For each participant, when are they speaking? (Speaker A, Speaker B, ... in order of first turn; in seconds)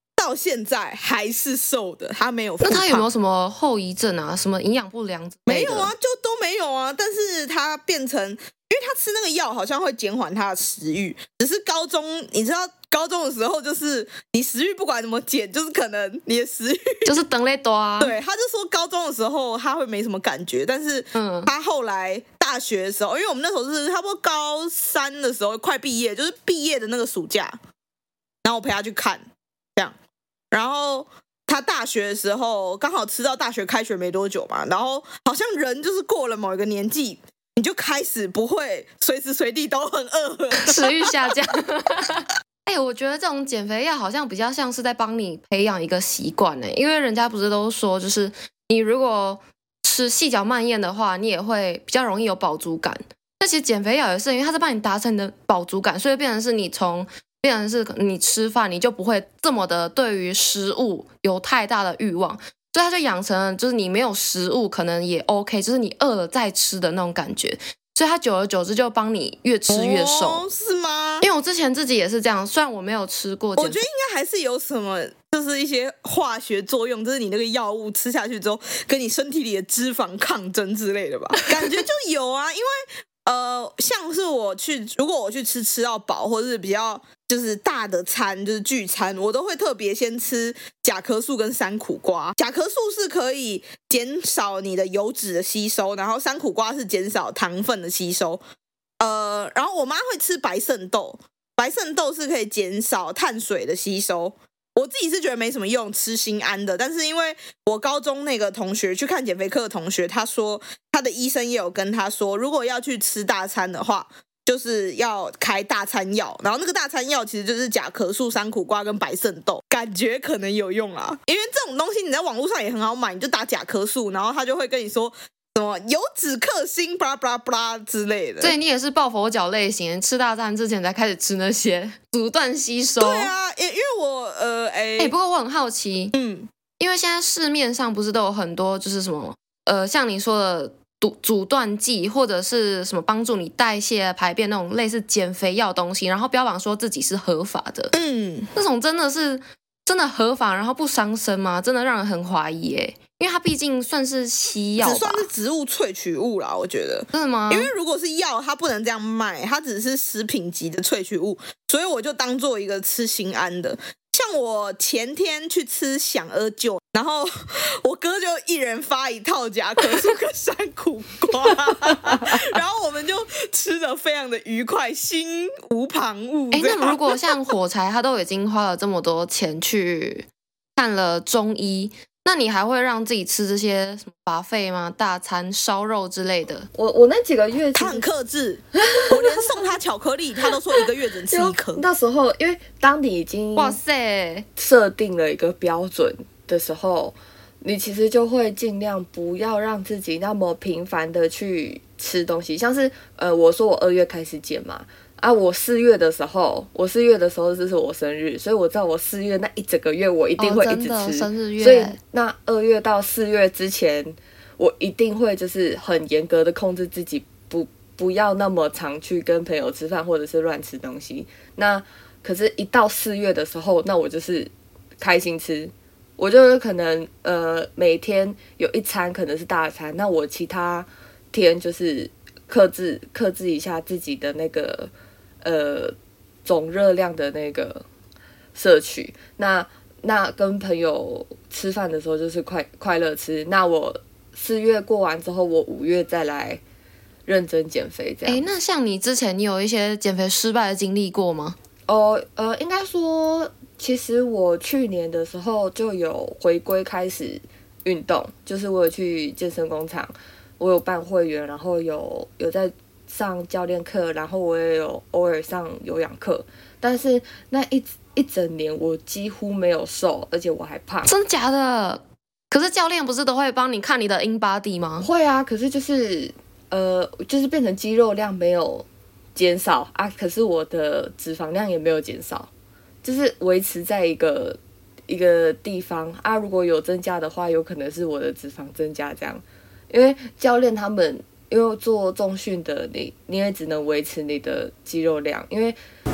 Speaker A: 0.2-3.1, 5.5-17.1, 18.0-27.6, 28.4-29.9, 30.5-41.1, 69.7-71.3, 73.6-98.4, 99.0-128.6, 133.0-135.1, 136.1-136.5, 147.9-148.5, 154.8-177.2, 187.8-191.8
Speaker B: 2.6-5.9, 17.1-18.2, 21.1-21.5, 40.6-70.5, 71.2-73.8, 128.4-133.3, 135.0-136.1, 136.8-147.9, 148.5-155.3, 157.1-157.7, 176.5-186.7, 193.6-194.5, 210.4-212.0, 248.2-251.6, 271.1-275.1
Speaker C: 186.7-188.1, 188.8-189.7, 191.3-193.8, 194.6-234.9, 235.4-237.8, 238.6-246.6, 247.3-248.5, 251.9-271.1, 275.0-282.5, 283.0-295.8